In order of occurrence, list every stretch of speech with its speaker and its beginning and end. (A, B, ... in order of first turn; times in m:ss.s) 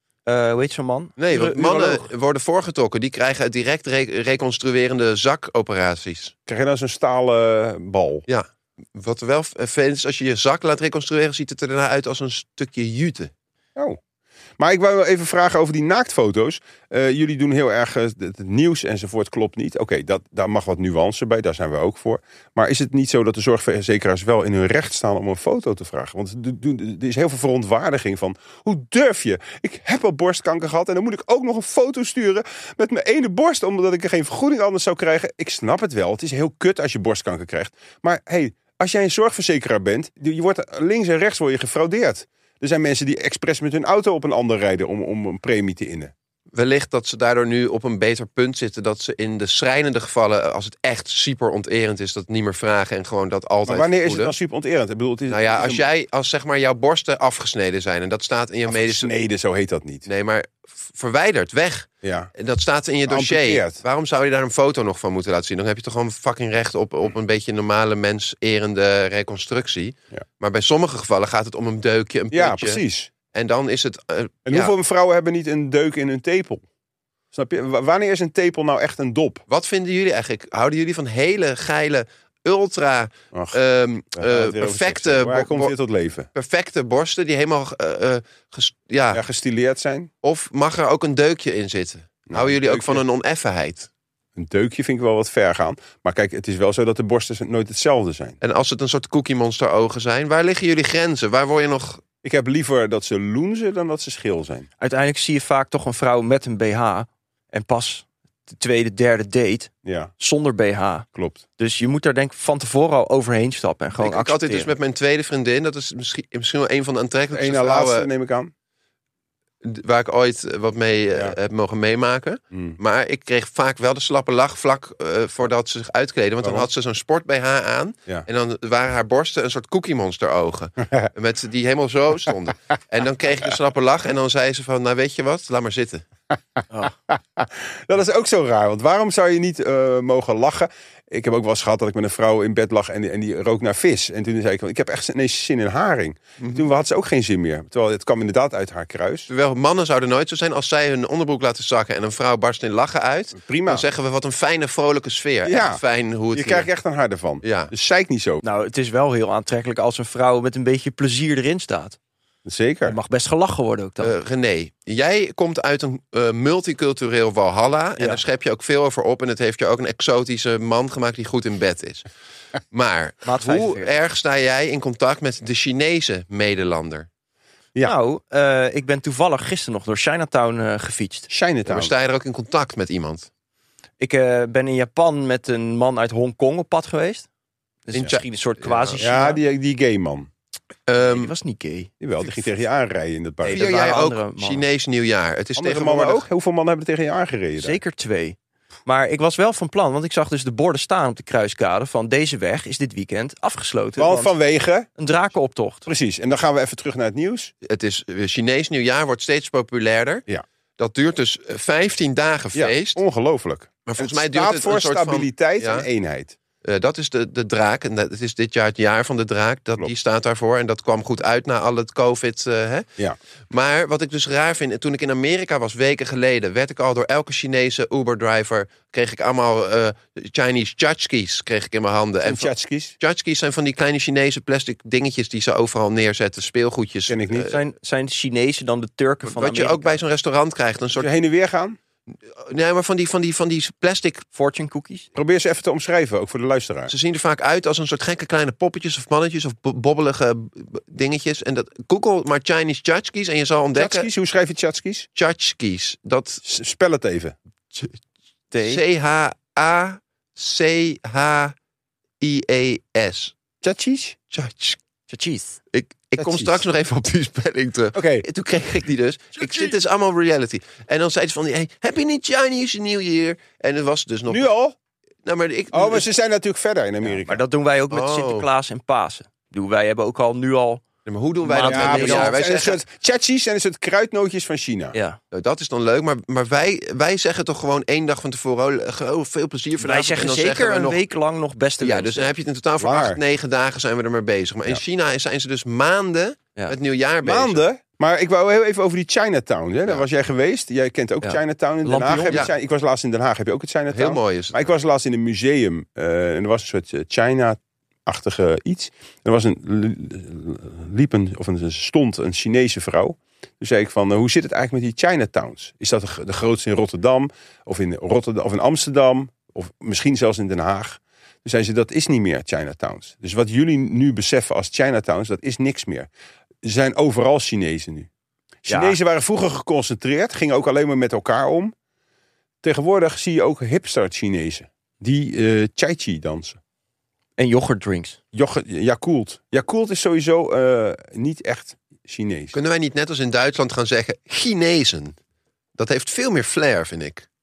0:00.2-0:02.0 A
0:01.2-0:06.3 B
0:06.5-0:08.2 C
0:08.3-0:13.3 B
0:14.6-0:46.1 C
0:46.5-0:54.3 B
0:53.6-0:55.8 C
0:55.3-0:59.1 B
0:58.7-1:00.0 C
1:00.0-1:12.8 B
1:02.0-1:02.3 C
1:03.1-1:03.8 C
1:12.3-1:13.1 C
1:13.3-1:14.7 B
1:14.5-1:16.6 C
1:17.3-1:19.4 C
1:19.5-1:25.7 B
1:24.1-1:26.3 C
1:26.3-1:29.2 B
1:29.1-1:30.1 C
1:30.2-1:33.9 B
1:32.3-1:33.0 C
1:34.4-1:38.4 C
1:38.4-1:42.0 B
1:42.2-1:44.7 C
1:44.8-1:51.0 A
1:49.8-1:50.1 C
1:51.1-1:51.4 C
1:51.6-1:54.7 A
1:54.0-1:58.1 B
1:57.3-1:58.5 C
1:59.6-2:16.0 B
2:06.4-2:06.7 C
2:17.1-2:29.3 C
2:26.4-2:26.6 B
2:29.3-2:36.7 B
2:33.3-2:33.8 C
2:35.4-2:35.8 C
2:36.3-2:38.4 C
2:37.4-2:37.7 B
2:38.4-2:42.0 A
2:42.4-2:43.0 C
2:42.8-2:44.1 A
2:44.0-2:52.0 B
2:52.7-2:57.1 B
2:53.2-2:53.9 A
2:57.8-3:01.3 A
3:01.3-3:01.9 C
3:01.6-3:03.3 B
3:04.0-3:07.3 A
3:07.9-3:09.4 A
3:07.9-3:09.0 B
3:09.0-3:10.3 C
3:10.9-3:11.3 B
3:11.0-3:11.9 A
3:12.0-3:13.6 C
3:13.4-3:14.6 A
3:13.5-3:16.2 B
3:15.6-3:17.8 C
3:17.6-3:24.3 A
3:24.0-3:24.9 C
3:25.0-3:25.9 A
3:25.8-3:27.5 C
3:27.6-3:30.2 B
3:30.8-3:33.0 B
3:32.5-3:36.4 C
3:33.8-3:35.9 B
3:36.6-3:42.9 B
3:43.5-3:57.6 B
3:52.2-3:53.0 C
3:57.1-3:57.5 C
3:57.4-4:00.0 A
3:59.2-4:01.1 B
4:01.0-4:01.8 C
4:02.3-4:04.2 B
4:04.3-4:05.1 A
4:05.1-4:06.9 C
4:06.9-4:14.1 B
4:13.8-4:15.1 C
4:15.2-4:16.4 B
4:16.4-4:17.4 C
4:18.5-4:18.8 A
4:18.6-4:21.5 B
4:22.2-4:23.3 B
4:23.6-4:24.2 C
4:24.3-4:24.8 B
4:25.1-4:25.6 A
4:25.7-4:34.5 B
4:26.2-4:26.6 C
4:27.9-4:28.2 C
4:34.3-4:34.8 C
4:35.2-4:36.1 B
4:35.7-4:37.4 C
4:37.0-4:40.8 A
4:37.9-4:38.5 B
4:41.0-4:42.8 B
4:41.4-4:42.4 A
4:41.6-4:45.0 C
4:45.3-4:51.0 B
4:49.8-4:52.3 A
4:51.8-4:57.6 B
4:52.8-4:53.2 C
4:57.2-5:26.1 C
5:01.2-5:02.5 A
5:03.9-5:04.7 B
5:26.6-5:28.1 C
5:28.6-5:31.7 C
5:28.7-5:29.0 A
5:32.6-5:36.6 C
5:37.4-5:38.2 A
5:38.3-5:42.5 C
5:42.5-5:45.2 B
5:45.8-5:47.2 B